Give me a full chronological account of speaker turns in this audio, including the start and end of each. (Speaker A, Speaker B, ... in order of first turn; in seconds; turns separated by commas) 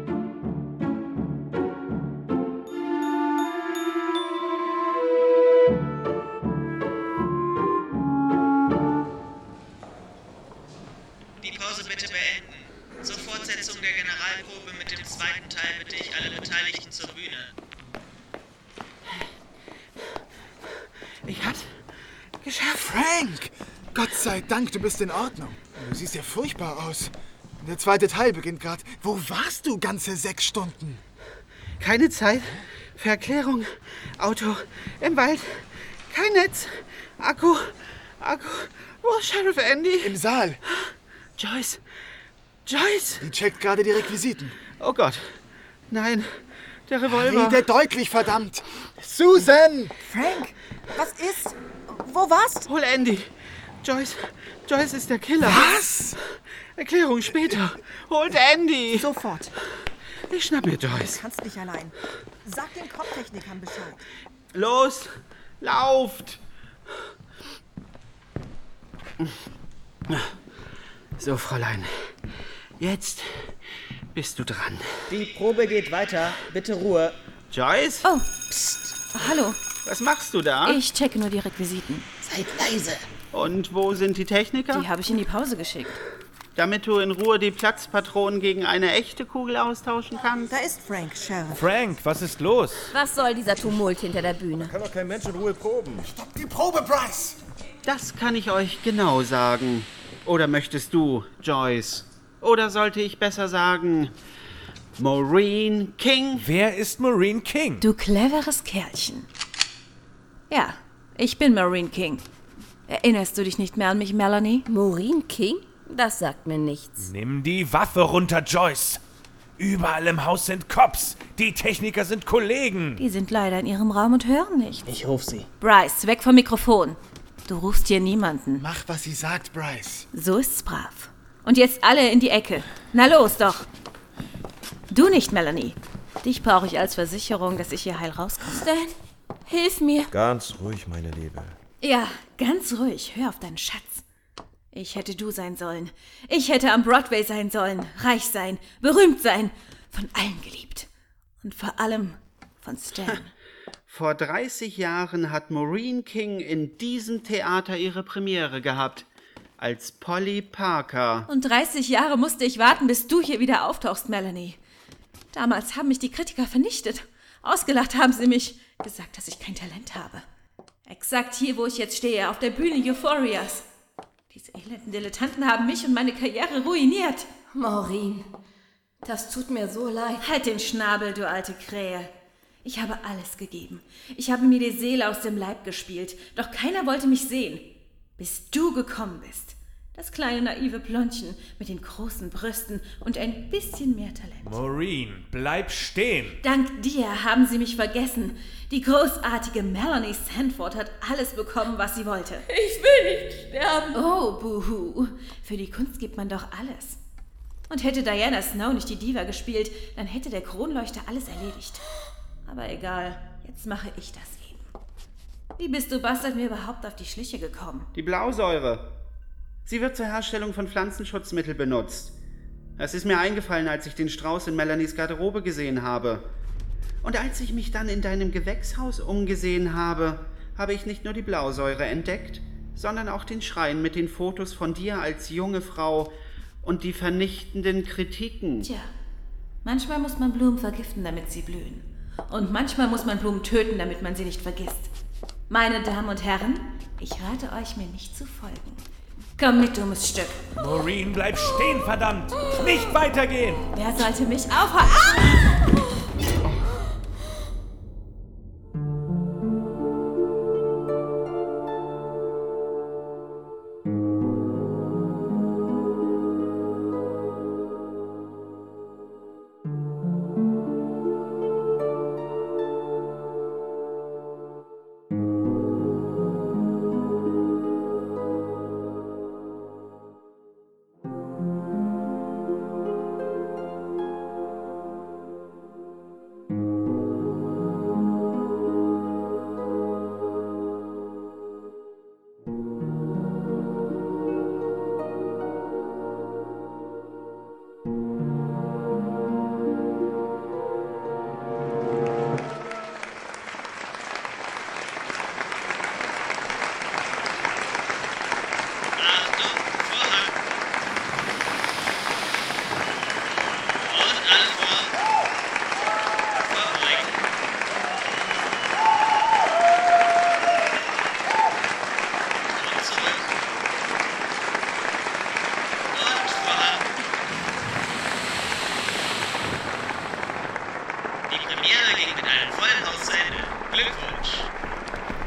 Speaker A: 11.4-17.5, Speaker B: 21.2-21.7, Speaker B: 22.4-22.7, Speaker C: 22.5-31.0, Speaker B: 31.8-40.2, Speaker C: 40.0-40.6, Speaker B: 41.4-41.8, Speaker B: 42.7-43.4, Speaker C: 43.2-44.5, Speaker B: 44.7-45.2, Speaker B: 45.9-47.7, Speaker C: 47.1-49.9, Speaker D: 50.0-52.7, Speaker B: 52.7-53.3, Speaker B: 53.8-56.2, Speaker C: 55.4-56.2, Speaker B: 56.8-59.1, Speaker D: 58.9-59.5, Speaker B: 60.3-61.2, Speaker D: 60.9-64.0, Speaker B: 64.5-66.4, Speaker B: 71.2-72.1, Speaker B: 72.8-73.5, Speaker B: 74.1-75.0, Speaker E: 75.1-77.2, Speaker B: 77.5-78.0, Speaker F: 78.0-79.6, Speaker B: 79.8-80.8, Speaker F: 80.7-82.1, Speaker E: 82.2-83.1, Speaker B: 83.3-84.9, Speaker F: 84.7-86.0, Speaker B: 86.6-90.5, Speaker D: 90.5-91.7, Speaker G: 91.6-92.9, Speaker H: 92.9-94.7, Speaker I: 94.6-96.1, Speaker C: 96.0-97.4, Speaker B: 97.8-104.1, Speaker B: 105.0-106.5, Speaker G: 106.4-107.8, Speaker F: 107.8-109.3, Speaker F: 110.5-112.3, Speaker F: 112.9-114.7, Speaker H: 114.7-117.1, Speaker G: 117.0-119.0, Speaker G: 119.6-123.0, Speaker F: 123.0-124.8, Speaker E: 124.9-125.5, Speaker F: 125.6-128.7, Speaker C: 128.6-130.1, Speaker F: 130.1-133.7, Speaker F: 134.9-138.7, Speaker H: 138.4-138.9, Speaker H: 139.5-140.1, Speaker I: 140.1-141.6, Speaker F: 141.8-144.0, Speaker F: 144.7-150.9, Speaker F: 151.4-153.3, Speaker B: 153.9-159.1, Speaker B: 159.6-161.3, Speaker F: 161.3-164.6, Speaker F: 165.3-170.3, Speaker F: 170.9-173.7, Speaker F: 174.3-177.3, Speaker H: 177.5-178.3, Speaker H: 179.0-180.3, Speaker F: 180.2-182.1, Speaker F: 182.6-194.7, Speaker G: 194.4-196.4, Speaker F: 196.4-202.4, Speaker H: 202.5-204.0, Speaker F: 203.9-207.0, Speaker F: 207.7-211.8, Speaker F: 212.4-214.7, Speaker F: 215.6-217.9, Speaker B: 217.9-218.9, Speaker B: 219.7-222.1, Speaker B: 222.8-226.3, Speaker B: 227.0-238.7, Speaker F: 238.6-238.9, Speaker F: 239.6-244.9, Speaker F: 245.5-248.8, Speaker F: 249.4-250.5, Speaker G: 250.6-253.7, Speaker F: 253.7-255.4, Speaker A: 309.0-310.4, Speaker A: 313.8-315.0, Speaker A: 316.3-317.1, Speaker A: 322.5-323.3, Speaker A: 325.9-326.9, Speaker A: 331.3-334.5